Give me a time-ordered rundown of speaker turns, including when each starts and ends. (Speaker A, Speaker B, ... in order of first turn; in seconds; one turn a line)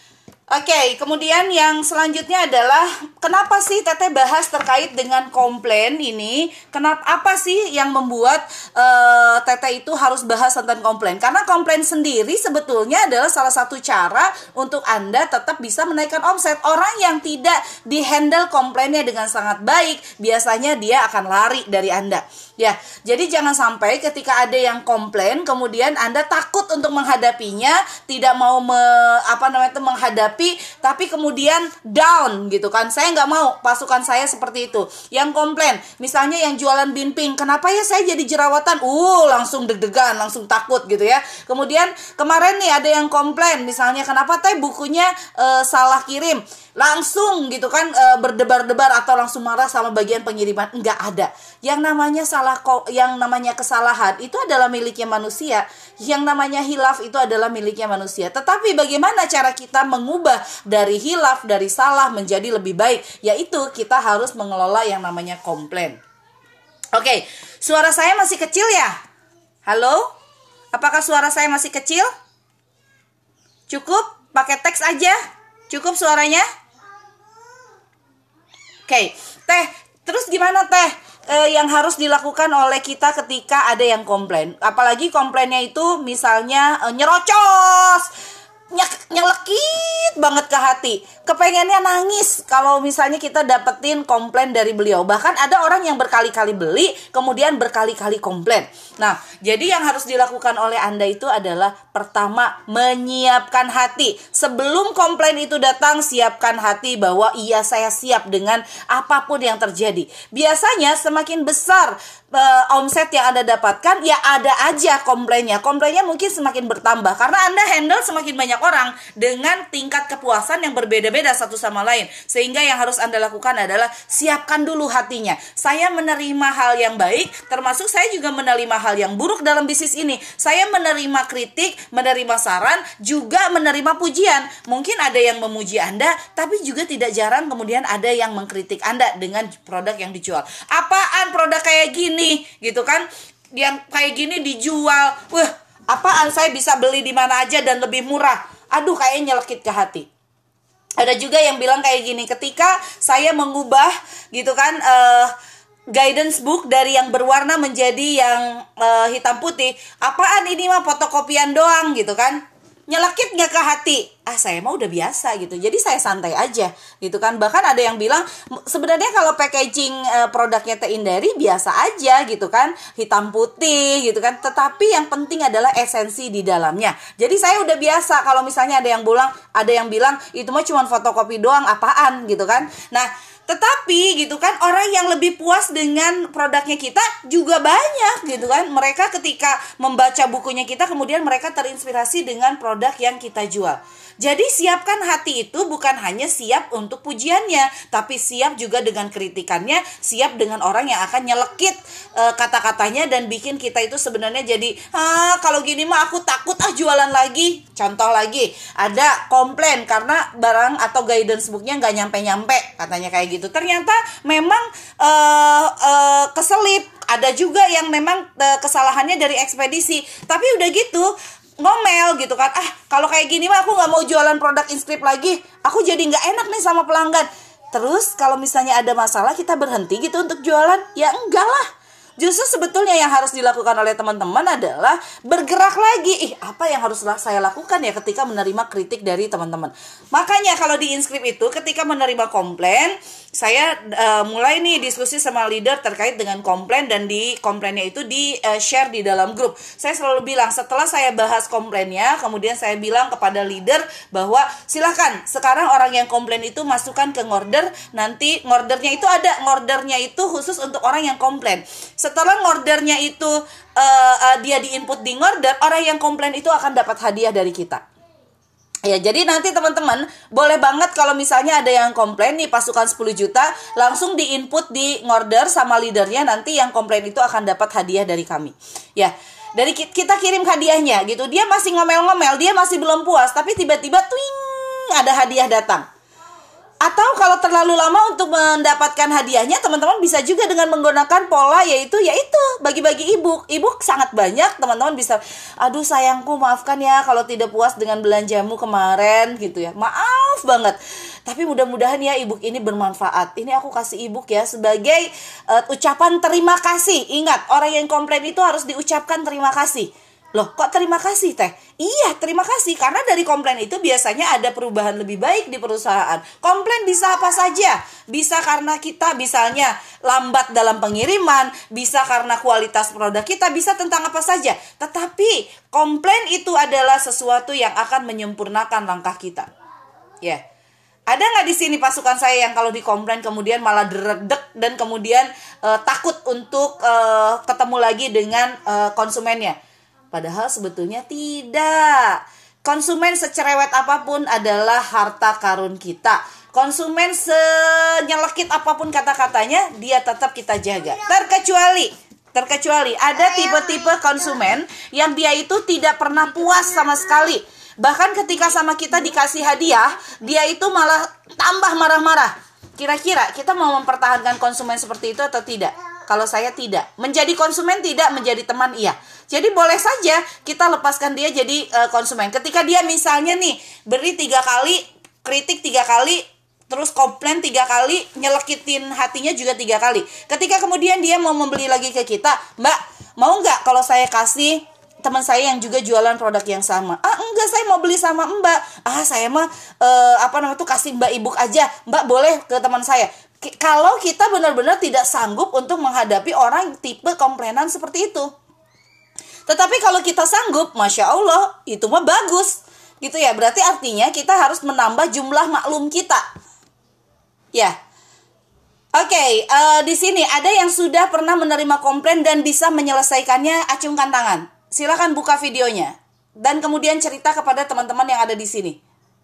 Speaker A: 0.5-66.0
Speaker A: 66.9-69.0
Speaker A: 69.7-70.1
Speaker A: 70.7-72.1
Speaker A: 73.7-75.2
Speaker A: 75.7-76.4
Speaker A: 78.9-88.1
Speaker A: 88.7-150.1
Speaker A: 151.0-155.3
Speaker A: 155.9-231.7
Speaker A: 232.2-267.8
Speaker A: 268.8-285.9
Speaker A: 286.8-329.5
Speaker A: 331.1-339.6
Speaker A: 340.1-398.3
Speaker A: 399.5-406.2
Speaker A: 408.9-418.8